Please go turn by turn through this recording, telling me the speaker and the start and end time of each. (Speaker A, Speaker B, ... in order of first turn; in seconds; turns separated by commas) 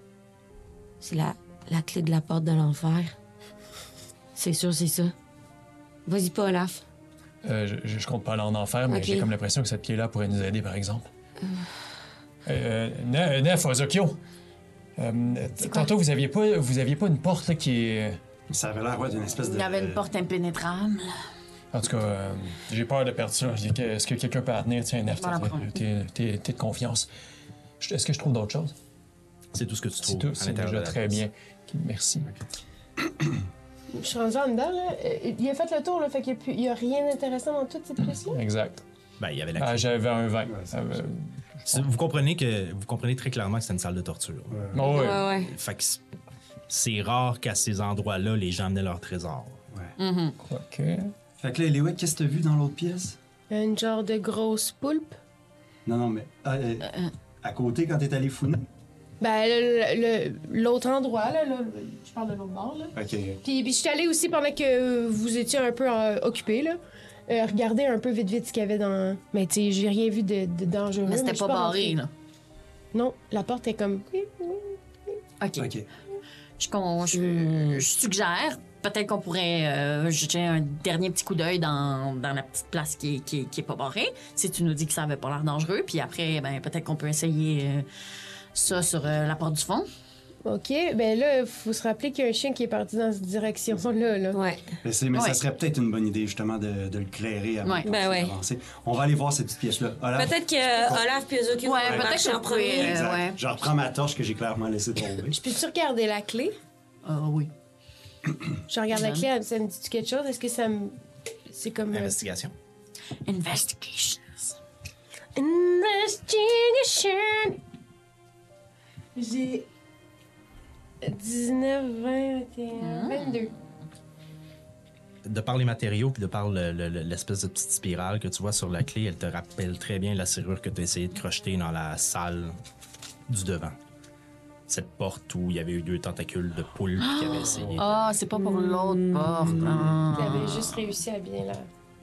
Speaker A: 1.0-3.1, Speaker A: 4.3-5.1, Speaker A: 6.0-6.8, Speaker B: 7.4-11.1, Speaker A: 8.9-9.3, Speaker B: 12.4-14.2, Speaker B: 15.0-18.2, Speaker C: 18.5-20.0, Speaker D: 19.4-21.1, Speaker B: 21.7-27.1, Speaker D: 25.1-25.9, Speaker B: 27.8-28.7, Speaker E: 29.5-31.2, Speaker B: 30.0-32.3, Speaker F: 33.9-38.4, Speaker B: 38.1-38.8, Speaker E: 39.2-39.9, Speaker B: 39.6-41.9, Speaker C: 40.4-40.9, Speaker E: 41.7-46.0, Speaker C: 44.5-44.8, Speaker B: 44.7-45.2, Speaker A: 44.8-45.5, Speaker E: 46.7-49.6, Speaker D: 50.0-50.4, Speaker B: 50.4-51.1, Speaker C: 51.4-53.2, Speaker F: 53.5-55.2, Speaker C: 55.9-58.6, Speaker F: 59.2-72.0, Speaker C: 62.9-63.4, Speaker D: 71.0-72.1, Speaker F: 72.9-75.2, Speaker D: 75.4-75.7, Speaker C: 75.6-75.8, Speaker D: 76.6-87.8, Speaker D: 88.5-89.9, Speaker F: 90.4-94.4, Speaker A: 94.3-94.7, Speaker C: 94.8-101.1, Speaker D: 95.1-95.4, Speaker D: 97.6-97.9, Speaker A: 97.8-98.3, Speaker A: 100.1-103.0, Speaker D: 101.6-103.4, Speaker C: 101.8-102.1, Speaker C: 102.8-105.4, Speaker F: 105.3-106.5, Speaker D: 107.0-107.5, Speaker F: 108.7-112.2, Speaker D: 108.9-109.3, Speaker E: 111.9-112.5, Speaker D: 113.2-114.6, Speaker F: 115.3-117.6, Speaker F: 119.2-119.7, Speaker F: 121.0-123.5, Speaker D: 122.8-123.5, Speaker E: 125.2-132.6, Speaker E: 133.3-133.8, Speaker E: 134.7-138.0, Speaker D: 137.0-140.8, Speaker A: 138.9-139.2, Speaker C: 139.4-140.1, Speaker F: 140.1-141.7